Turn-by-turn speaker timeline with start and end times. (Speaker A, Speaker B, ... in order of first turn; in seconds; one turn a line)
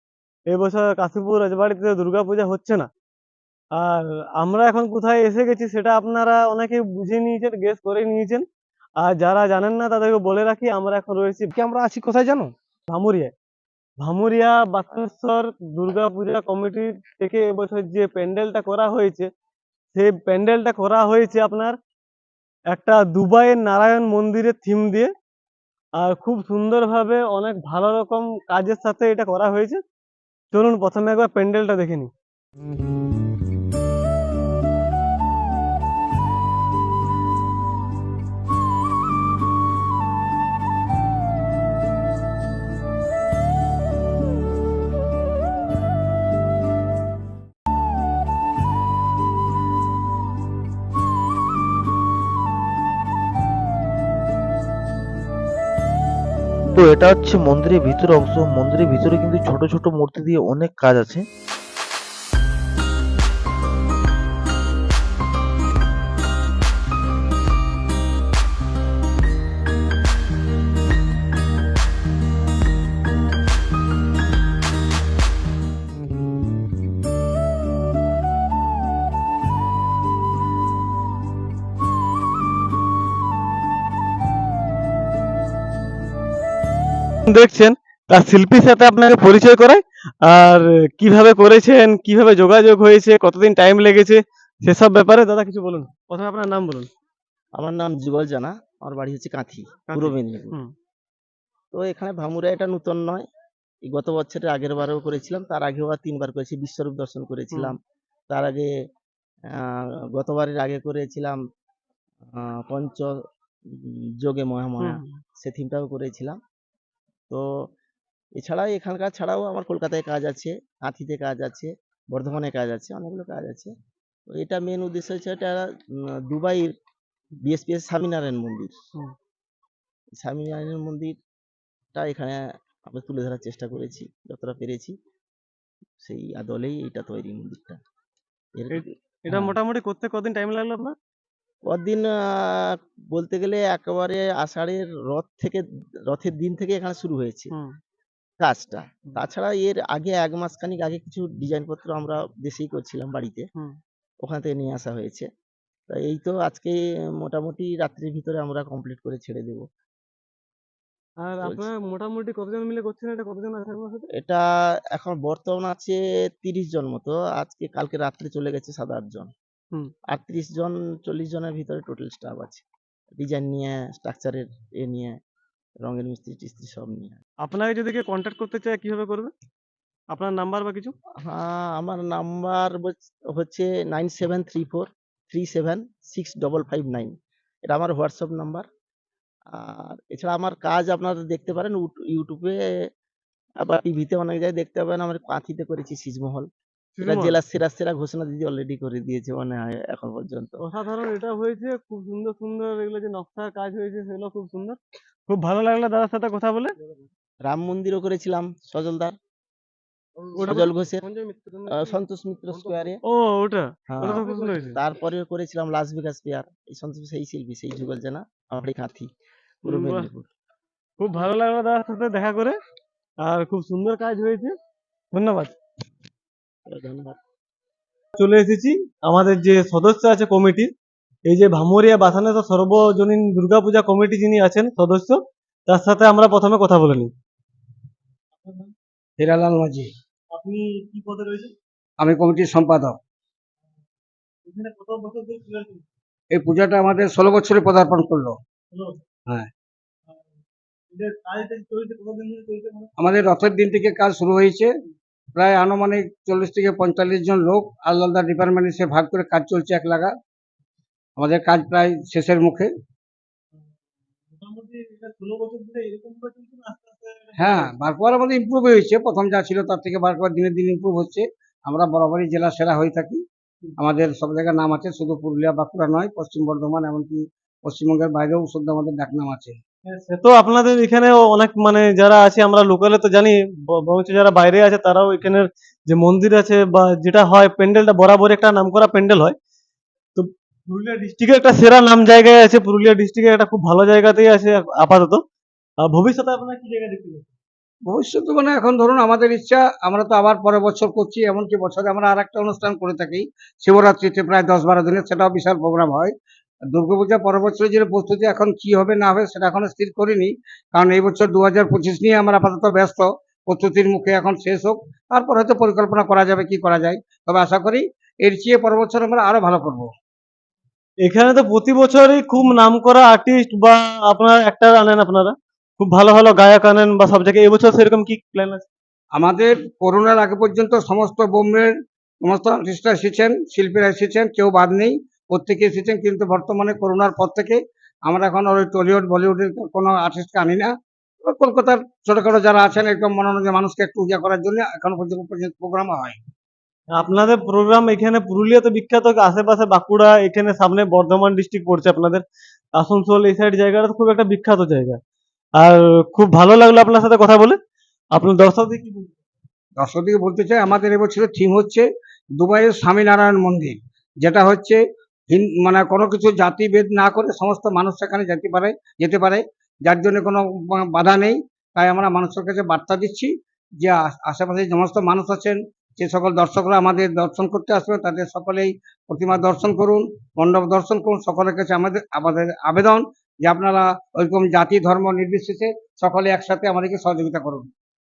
Speaker A: 0.5-2.9
Speaker A: 3.8-8.4
Speaker A: 9.0-11.5
Speaker A: 12.9-13.3
Speaker A: 14.0-19.3
Speaker A: 19.9-21.8
Speaker A: 22.7-25.1
Speaker A: 26.0-29.8
Speaker A: 30.5-32.1
Speaker B: 56.7-61.2
Speaker A: 87.2-96.9
Speaker C: 97.6-100.5
Speaker A: 99.9-100.7
Speaker C: 101.7-103.2
Speaker C: 103.9-107.8
Speaker C: 108.3-108.7
Speaker C: 109.5-111.4
Speaker C: 112.3-113.2
Speaker C: 113.7-116.4
Speaker A: 114.8-115.2
Speaker C: 118.4-123.7
Speaker C: 124.3-126.7
Speaker C: 127.4-128.7
Speaker C: 130.2-131.1
Speaker C: 131.9-134.9
Speaker C: 136.0-137.8
Speaker C: 138.6-139.6
Speaker A: 138.7-140.9
Speaker C: 141.7-147.5
Speaker C: 148.4-153.5
Speaker C: 154.2-155.3
Speaker C: 155.9-159.6
Speaker A: 161.2-164.1
Speaker C: 161.4-161.7
Speaker C: 164.1-169.3
Speaker C: 170.1-172.6
Speaker C: 173.2-175.2
Speaker C: 175.8-177.2
Speaker A: 177.4-179.3
Speaker A: 180.1-180.9
Speaker C: 181.2-187.1
Speaker C: 187.7-188.7
Speaker C: 189.5-192.6
Speaker C: 193.6-196.5
Speaker A: 197.0-197.3
Speaker C: 197.0-200.6
Speaker A: 200.6-206.7
Speaker C: 207.4-209.2
Speaker A: 210.3-210.7
Speaker C: 210.4-211.1
Speaker C: 211.7-213.0
Speaker A: 213.0-214.8
Speaker C: 213.9-219.1
Speaker C: 219.6-220.3
Speaker A: 219.7-220.1
Speaker A: 221.0-222.6
Speaker A: 223.2-224.5
Speaker A: 225.1-225.6
Speaker C: 226.7-227.2
Speaker A: 228.2-230.7
Speaker A: 231.3-237.1
Speaker A: 238.4-238.7
Speaker D: 239.2-239.9
Speaker A: 240.3-241.5
Speaker D: 242.0-242.9
Speaker A: 244.4-245.8
Speaker D: 246.3-248.3
Speaker A: 248.7-249.0
Speaker A: 250.9-252.9
Speaker D: 253.0-254.7
Speaker D: 255.3-260.1
Speaker D: 261.2-262.7
Speaker A: 264.3-267.7
Speaker D: 267.4-273.2
Speaker D: 273.8-279.6
Speaker A: 279.9-289.3
Speaker A: 290.1-295.2
Speaker A: 295.8-297.3
Speaker D: 297.9-306.1
Speaker D: 306.7-319.9
Speaker A: 321.0-328.6
Speaker D: 329.1-331.7
Speaker D: 332.2-340.7
Speaker D: 341.2-346.2
Speaker A: 346.9-352.2
Speaker A: 352.8-355.0
Speaker A: 355.6-357.6
Speaker A: 358.1-359.1
Speaker D: 359.8-361.9
Speaker D: 362.4-364.8
Speaker D: 365.3-373.3
Speaker D: 373.8-387.7